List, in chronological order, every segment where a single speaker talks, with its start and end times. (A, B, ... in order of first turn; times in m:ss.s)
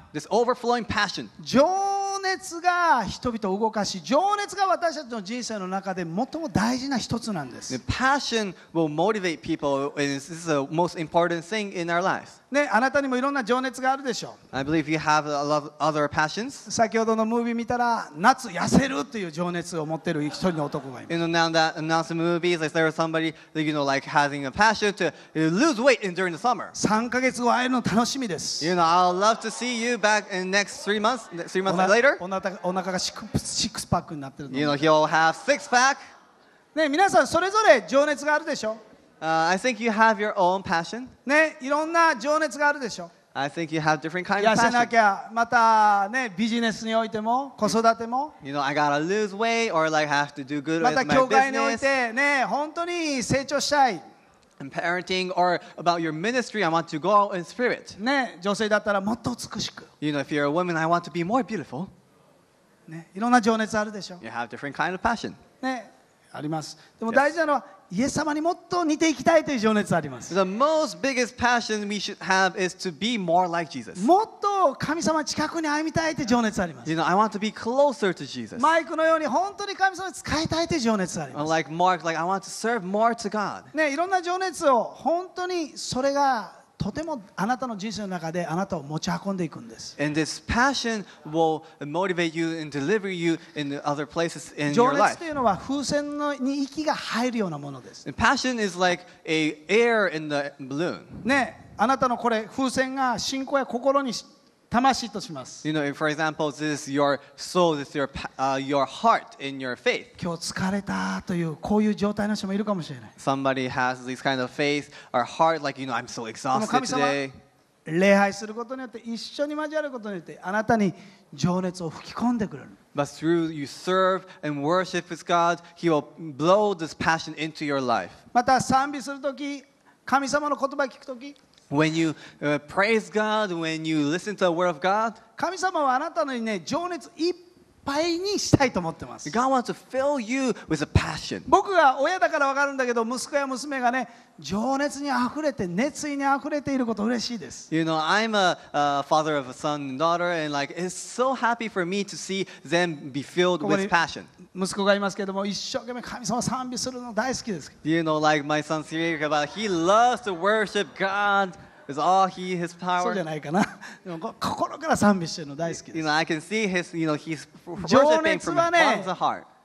0:00.1-0:01.3 A
0:01.4-0:07.8 B
0:07.7-0:12.4 A
0:12.5-0:14.4 B
0:14.5-0:16.7 A
0:16.7-0:21.1 B
0:21.1-0:26.8 A
0:26.7-0:28.7 B
0:28.6-0:32.2 A
0:31.7-0:34.8 B
0:34.5-0:36.0 A
0:36.7-0:38.8 B
0:39.2-0:41.1 A
0:41.3-0:43.1 B
0:43.3-0:44.9 A
0:44.4-0:48.4 B
0:48.4-0:51.9 A
0:50.8-0:54.0 B
0:54.6-0:58.0 A
0:58.0-0:59.9 B
1:00.0-1:01.9 A
1:02.9-1:04.2 B
1:04.2-1:05.4 A
1:05.6-1:10.4 B
1:10.3-1:14.1 A
1:14.0-1:16.9 B
1:16.8-1:18.7 A
1:18.6-1:21.5 B
1:21.3-1:23.7 A
1:23.7-1:30.0 B
1:30.0-1:35.2 A
1:34.7-1:38.0 B
1:38.0-1:41.3 A
1:41.2-1:45.6 B
1:45.6-1:50.1 A
1:50.2-1:53.1 B
1:53.2-1:57.4 A
1:56.5-1:57.2 B
1:57.9-2:02.8 B
2:03.0-2:08.2 A
2:08.3-2:11.4 B
2:11.7-2:15.2 A
2:15.4-2:19.3 B
2:19.2-2:21.5 A
2:21.5-2:27.7 B
2:27.7-2:34.3 A
2:33.6-2:33.9 B
2:34.5-2:37.8 B
2:37.8-2:43.2 A
2:43.0-2:46.1 B
2:45.8-2:49.5 A
2:47.8-2:49.1 B